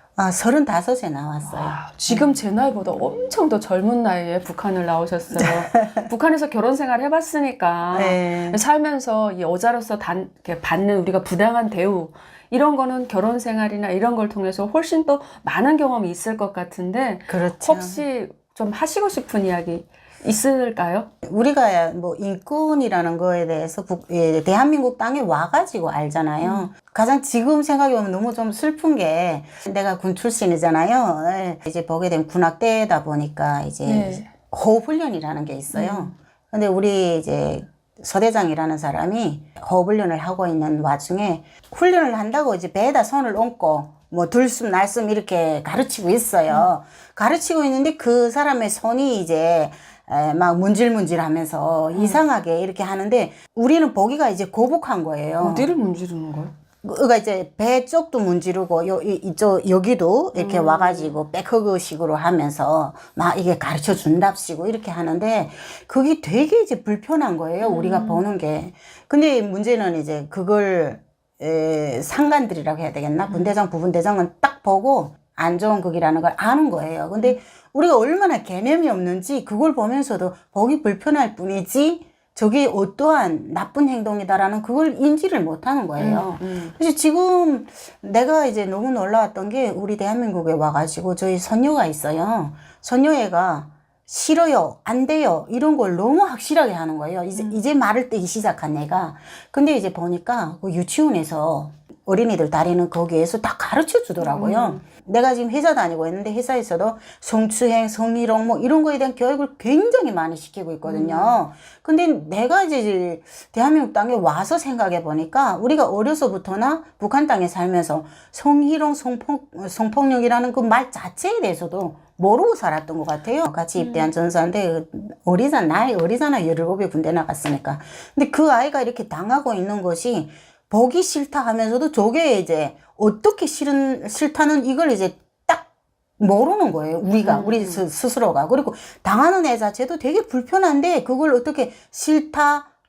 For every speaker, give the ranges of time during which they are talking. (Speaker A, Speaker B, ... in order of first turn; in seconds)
Speaker A: 0.2-2.4, 5.3-6.0, 7.9-8.6, 17.3-18.1, 21.2-55.7, 56.8-142.7
Speaker B: 1.4-21.1, 26.4-26.7, 33.9-34.3, 35.7-36.1, 51.9-52.2, 55.4-56.5, 60.3-61.2, 67.6-68.2, 73.3-73.5, 86.0-86.7, 97.3-97.6, 104.2-104.8, 110.8-111.4, 123.8-124.1, 137.2-137.8